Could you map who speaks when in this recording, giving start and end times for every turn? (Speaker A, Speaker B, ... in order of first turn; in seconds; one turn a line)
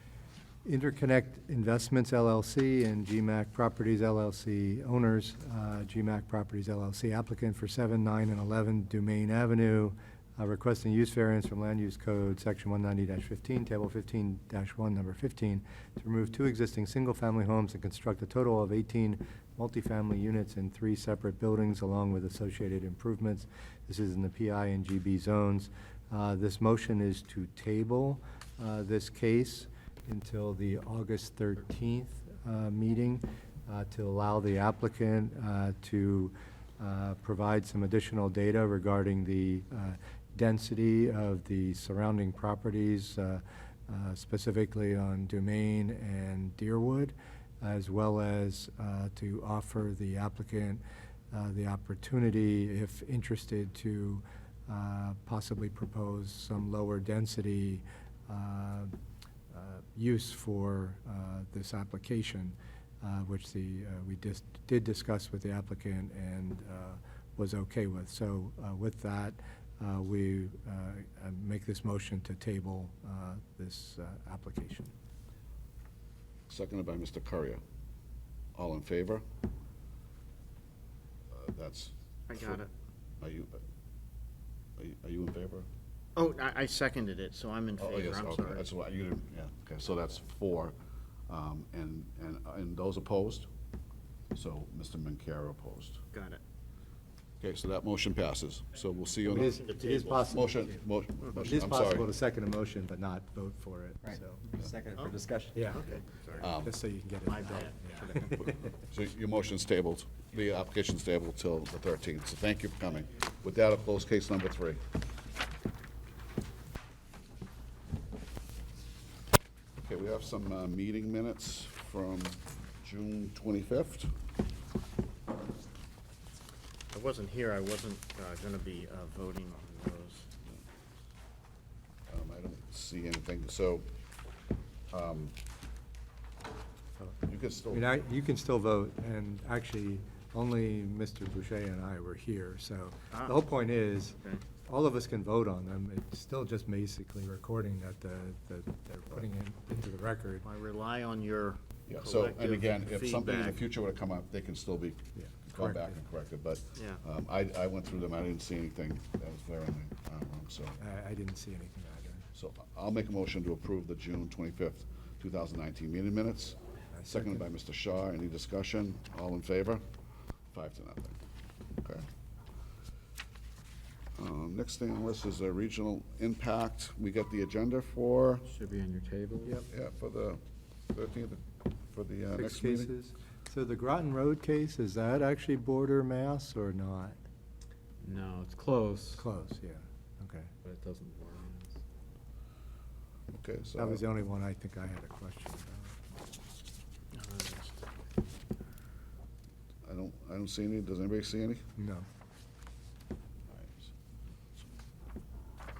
Speaker A: 0.6-58.9
Speaker A: 59.5-74.9
Speaker B: 76.5-77.6
Speaker B: 78.5-79.2
Speaker B: 81.3-82.6
Speaker C: 82.3-82.7
Speaker B: 83.2-83.6
Speaker B: 84.8-85.7
Speaker C: 86.2-88.7
Speaker B: 87.8-90.7
Speaker B: 91.3-93.5
Speaker B: 94.3-96.0
Speaker C: 96.1-96.4
Speaker B: 97.4-99.6
Speaker A: 99.3-100.7
Speaker C: 99.3-100.3
Speaker B: 100.3-102.1
Speaker A: 101.3-104.5
Speaker D: 104.6-105.3
Speaker C: 104.9-106.5
Speaker A: 105.5-105.9
Speaker B: 106.4-106.8
Speaker A: 106.6-108.6
Speaker C: 107.2-108.5
Speaker B: 108.8-114.8
Speaker B: 119.8-124.1
Speaker C: 126.9-130.3
Speaker B: 132.1-133.9
Speaker B: 134.9-135.3
Speaker B: 137.2-137.8
Speaker A: 137.7-150.4
Speaker C: 143.1-143.4
Speaker C: 150.4-153.6
Speaker B: 151.9-160.8
Speaker A: 155.2-156.0
Speaker C: 156.8-157.0
Speaker A: 160.8-162.2
Speaker B: 162.3-166.6
Speaker A: 166.9-167.4
Speaker B: 167.1-169.8
Speaker B: 170.5-171.2
Speaker B: 171.8-172.1
Speaker B: 174.2-178.4
Speaker D: 178.4-179.6
Speaker B: 179.7-182.9
Speaker A: 182.3-187.2
Speaker D: 188.0-189.2
Speaker A: 189.2-190.5
Speaker D: 190.6-191.8
Speaker B: 193.3-194.0
Speaker A: 193.8-195.9
Speaker C: 197.1-197.8
Speaker B: 199.8-201.7
Speaker A: 201.8-202.1
Speaker B: 203.5-203.9